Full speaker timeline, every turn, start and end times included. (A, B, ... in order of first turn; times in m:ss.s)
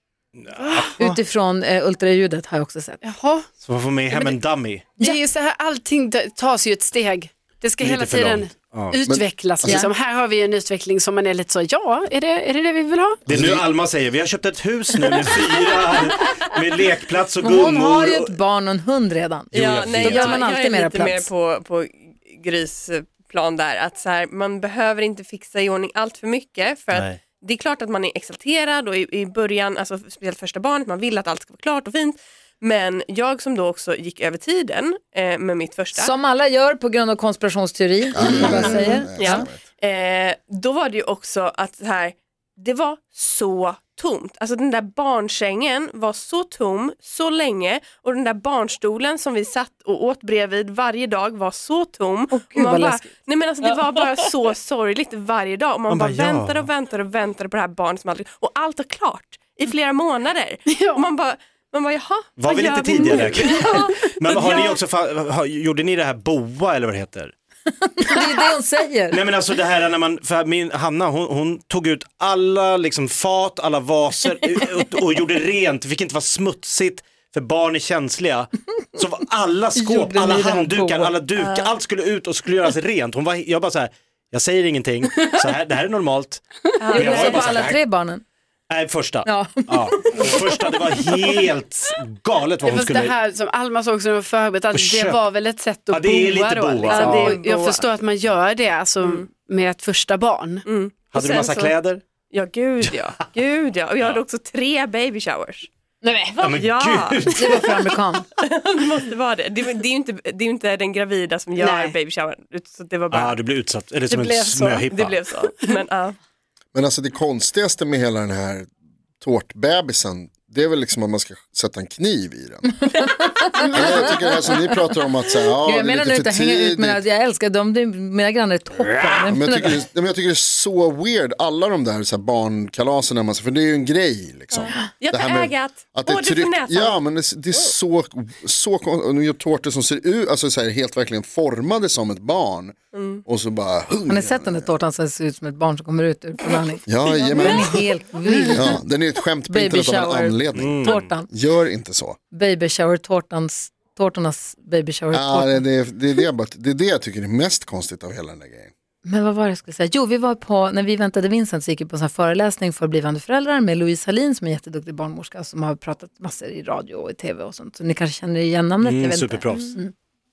0:00.4-0:01.2 A
0:00.6-0:00.9 B
0:01.0-0:03.0 C
0:03.0-0:03.5 B
0:03.6-0:05.0 A
0:05.0-0:13.2 B
0:07.8-0:09.0 A
0:09.1-0:09.8 D
0:09.6-0:09.9 C
0:13.3-0:18.3 A
0:13.3-0:13.6 D
0:17.4-0:21.3 C
0:19.5-0:20.4 A
0:19.5-0:36.1 E
0:26.9-0:27.2 A
0:36.0-0:39.5 C
0:38.2-0:39.6 D
0:38.4-0:38.9 B
0:39.2-1:04.8 E
0:52.3-0:53.1 C
0:53.6-0:54.0 C
0:55.9-0:56.7 A
1:00.7-1:01.0 B
1:02.4-1:07.3 A
1:07.8-1:09.2 C
1:09.1-1:27.8 A
1:19.8-1:21.2 C
1:21.4-1:21.7 E
1:26.8-1:27.5 E
1:26.9-1:28.2 C
1:28.7-1:33.2 A
1:29.2-1:30.6 C
1:32.6-1:40.6 B
1:34.7-1:35.2 A
1:35.9-1:37.4 A
1:36.8-1:37.8 E
1:40.7-1:41.8 E
1:41.1-1:42.0 A
1:42.3-1:45.7 E
1:46.0-1:46.7 C
1:46.4-1:47.6 A
1:46.6-1:53.4 E
1:47.3-1:48.3 C
1:51.6-1:52.0 B
1:53.1-1:55.3 A
1:54.2-1:54.8 B
1:54.9-1:56.2 E
1:56.7-1:58.7 D
1:59.2-2:02.9 D
2:02.8-2:04.9 C
2:03.7-2:07.0 D
2:05.6-2:09.8 C
2:09.3-2:22.8 D
2:15.0-2:17.0 E
2:22.9-2:23.2 E
2:23.3-2:24.8 D
2:24.1-2:28.8 C
2:26.9-2:27.8 D
2:28.5-2:32.2 D
2:29.5-2:31.3 C
2:30.6-2:31.0 A
2:32.3-2:35.7 C
2:35.1-2:38.7 D
2:39.0-2:49.9 C
2:48.8-2:49.8 A